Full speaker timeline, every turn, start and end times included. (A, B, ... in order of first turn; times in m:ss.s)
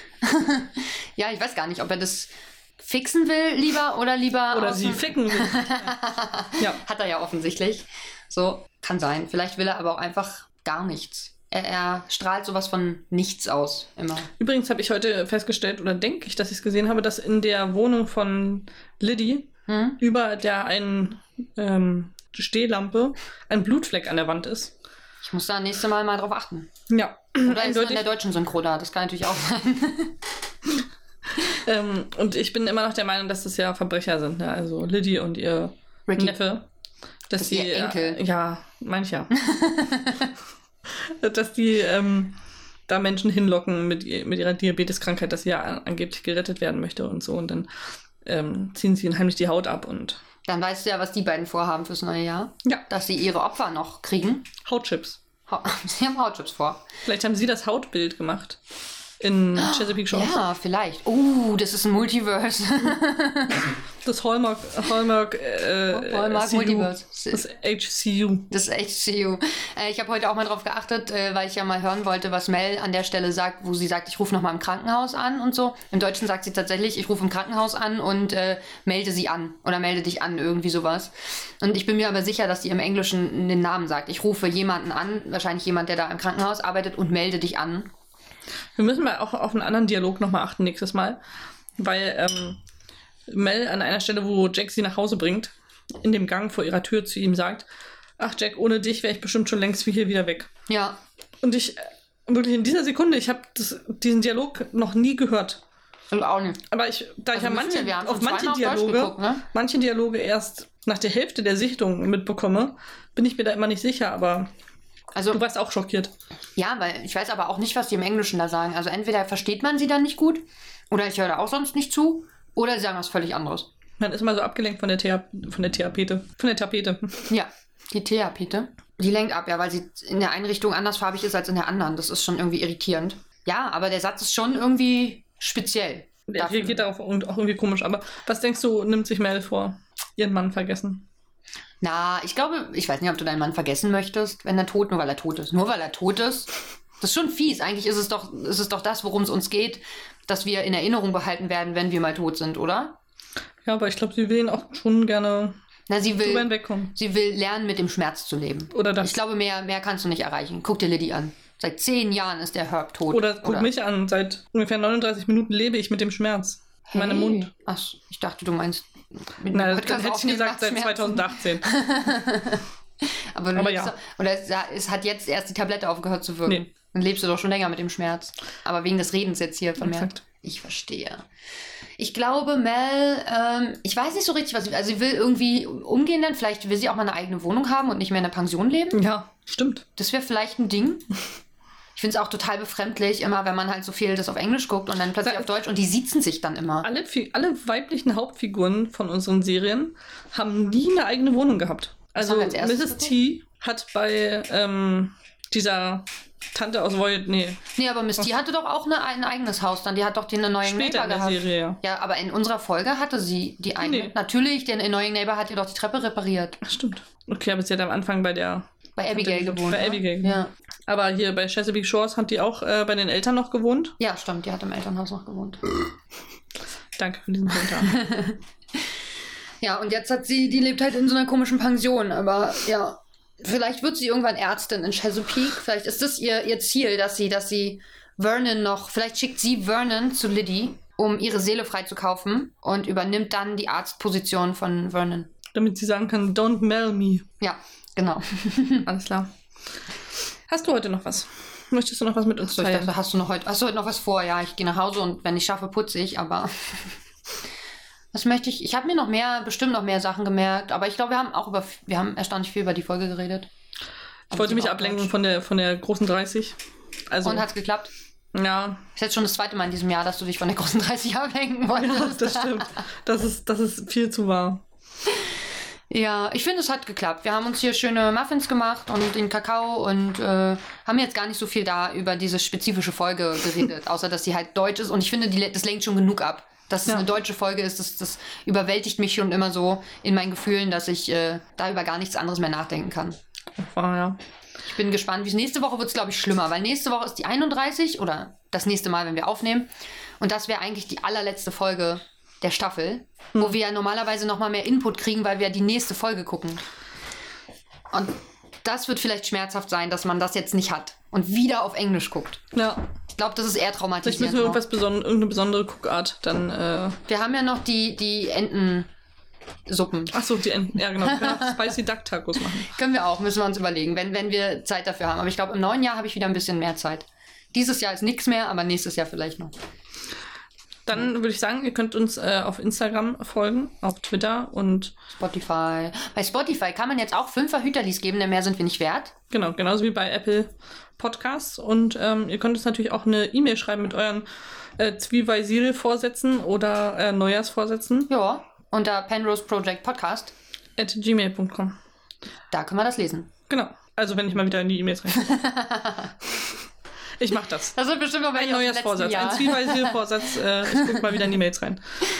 0:00.2-0:14.3 A
0:04.5-0:05.9 B
0:14.4-0:24.7 B
0:19.7-0:20.0 A
0:25.2-0:26.7 A
0:26.9-0:28.1 B
0:27.4-0:30.2 A
0:31.4-0:36.7 B
0:36.1-0:36.4 A
0:37.3-0:39.4 B
0:37.4-0:38.2 A
0:39.4-0:40.3 A
0:40.9-0:42.4 B
0:42.9-0:47.7 B
0:48.2-0:50.2 B
0:50.4-0:54.5 A
0:54.6-0:55.2 B
0:55.5-0:56.8 A
0:57.0-0:58.6 B
0:59.2-1:00.4 B
0:59.6-1:03.7 A
1:04.0-1:08.5 B
1:05.9-1:07.4 A
1:08.5-1:27.9 A
1:28.8-1:31.2 B
1:31.8-1:32.6 B
1:33.3-1:37.6 B
1:38.2-1:40.5 B
1:40.7-1:41.0 A
1:41.4-1:45.6 B
1:46.1-1:46.6 A
1:46.7-1:54.5 B
1:47.3-1:49.4 A
1:55.1-1:55.4 A
1:55.3-1:56.1 B
1:56.6-2:03.7 A
2:04.0-2:07.3 B
2:07.3-2:16.8 A
2:16.3-2:21.0 B
2:21.8-2:33.0 A
2:33.6-2:35.6 B
2:35.9-2:43.7 A
2:36.2-2:36.9 B
2:38.7-2:39.1 B
2:43.1-2:47.5 B
2:46.9-3:01.2 A
2:49.5-2:51.7 B
2:53.6-2:53.9 B
2:59.8-3:00.2 B
3:02.0-3:09.0 A
3:08.9-3:09.8 B
3:10.0-3:11.1 A
3:12.0-3:16.9 A
3:16.8-3:27.6 B
3:22.2-3:23.2 A
3:27.8-3:36.6 A
3:30.6-3:31.8 B
3:33.8-3:34.1 B
3:36.6-3:44.0 B
3:39.0-3:40.5 A
3:44.0-3:45.6 A
3:47.0-3:48.1 B
3:47.7-3:48.4 A
3:49.6-4:05.3 A
4:05.6-4:07.3 B
4:07.4-4:08.9 A
4:08.8-4:09.3 B
4:10.5-4:12.9 B
4:12.4-4:17.0 A
4:18.1-4:23.5 A
4:24.3-4:25.1 A
4:24.3-4:26.6 B
4:27.1-4:27.5 B
4:27.2-4:27.9 A
4:28.3-4:28.8 B
4:29.0-4:32.7 A
4:31.8-4:34.6 B
4:35.9-4:53.2 A
4:53.6-4:54.2 B
4:54.6-5:06.6 A
5:07.9-5:12.5 A
5:12.6-5:12.8 B
5:13.2-5:14.6 A
5:14.0-5:17.0 B
5:17.1-5:18.9 A
5:19.7-5:20.1 A
5:20.1-5:22.7 B
5:21.0-5:21.7 A
5:22.6-5:29.6 A
5:30.9-5:34.9 B
5:35.1-5:39.1 A
5:39.3-5:44.2 B
5:44.8-5:48.1 B
5:48.1-5:50.3 A
5:50.8-5:51.8 B
5:52.5-5:53.3 A
5:53.5-5:55.4 B
5:55.2-5:56.1 A
5:57.2-5:57.8 B
5:57.7-6:00.0 A
5:58.3-6:01.8 B
6:00.6-6:01.2 A